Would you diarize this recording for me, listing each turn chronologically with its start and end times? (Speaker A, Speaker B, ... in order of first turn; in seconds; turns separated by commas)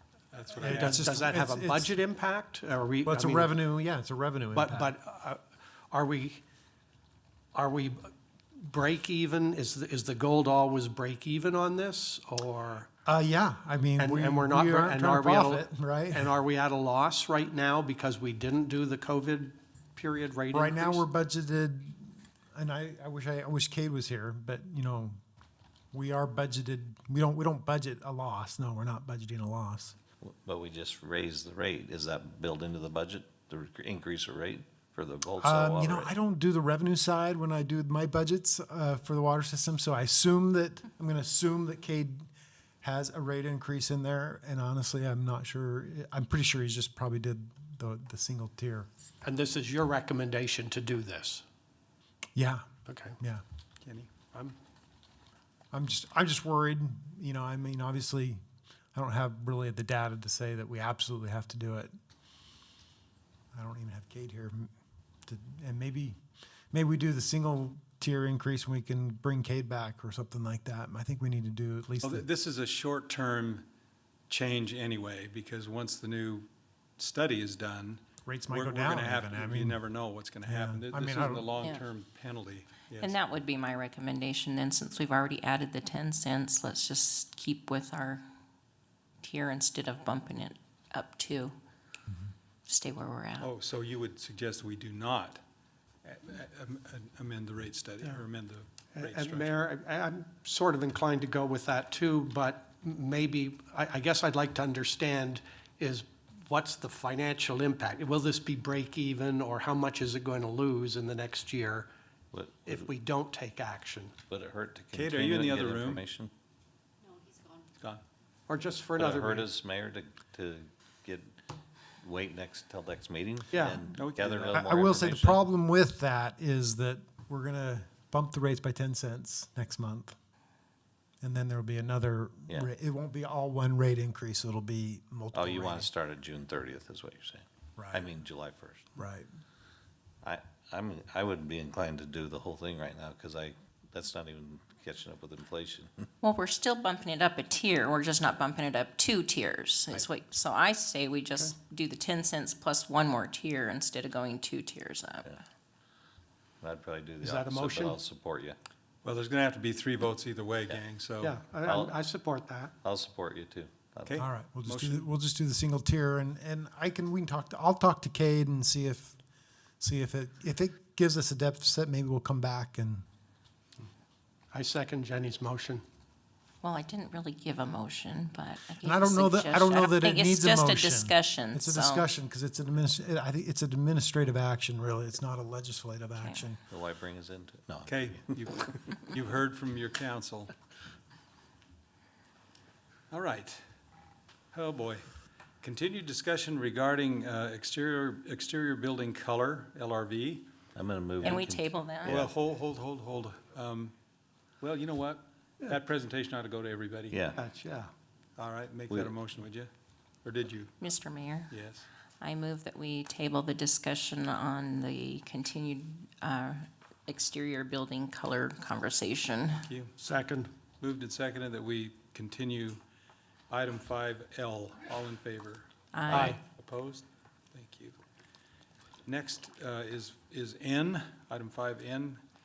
Speaker A: 0.3-1.2, Speaker B: 0.5-3.6, Speaker C: 0.6-1.9, Speaker C: 3.0-4.9, Speaker B: 4.5-6.4, Speaker B: 7.5-12.9, Speaker C: 13.0-16.3, Speaker B: 14.0-21.0, Speaker C: 20.5-25.2, Speaker C: 25.9-29.9, Speaker D: 30.2-36.1, Speaker C: 35.4-42.3, Speaker C: 42.8-48.9, Speaker B: 49.2-51.4, Speaker C: 52.4-53.4, Speaker B: 52.9-53.2, Speaker A: 53.8-54.1, Speaker C: 55.7-58.4, Speaker C: 58.9-61.9, Speaker C: 63.5-64.7, Speaker C: 65.2-66.2, Speaker C: 66.7-72.2, Speaker A: 72.0-73.7, Speaker A: 74.3-83.1, Speaker C: 78.2-79.8, Speaker C: 80.4-81.5, Speaker E: 83.0-88.2, Speaker E: 89.2-91.5, Speaker E: 92.7-93.5, Speaker A: 93.4-95.4, Speaker A: 96.0-99.6, Speaker B: 98.9-111.9, Speaker D: 112.3-112.9, Speaker B: 112.7-114.1, Speaker D: 114.3-116.3, Speaker A: 114.9-116.0, Speaker B: 118.5-119.5, Speaker D: 118.9-121.4, Speaker D: 122.0-125.4, Speaker B: 123.5-123.8, Speaker A: 124.0-124.6, Speaker C: 124.5-130.2, Speaker C: 131.2-135.9, Speaker D: 135.3-138.9, Speaker C: 137.8-138.1, Speaker C: 138.9-139.3, Speaker D: 140.2-146.1, Speaker E: 146.2-155.3, Speaker D: 156.6-158.6, Speaker B: 157.2-158.0, Speaker A: 159.0-161.3, Speaker B: 161.2-162.7, Speaker D: 161.6-161.9, Speaker D: 162.8-164.2, Speaker A: 164.1-165.1, Speaker C: 164.2-169.2, Speaker C: 169.8-173.0, Speaker B: 174.5-175.8, Speaker E: 176.6-182.1, Speaker C: 178.8-186.6, Speaker E: 186.2-186.4, Speaker D: 186.7-188.2, Speaker A: 187.9-190.5, Speaker A: 193.1-193.6, Speaker A: 194.5-195.1, Speaker A: 195.6-200.5, Speaker D: 200.7-202.3, Speaker E: 201.2-202.2, Speaker A: 202.1-203.9, Speaker A: 204.6-207.3, Speaker D: 207.1-207.4, Speaker B: 207.3-207.9, Speaker A: 208.4-209.7, Speaker A: 210.2-210.7, Speaker E: 210.8-211.5, Speaker A: 211.5-211.8, Speaker E: 212.2-219.6, Speaker A: 219.7-219.9, Speaker B: 220.0-220.5, Speaker A: 220.8-222.8, Speaker A: 223.5-227.9, Speaker E: 225.9-226.4, Speaker B: 226.1-226.4, Speaker A: 229.1-232.2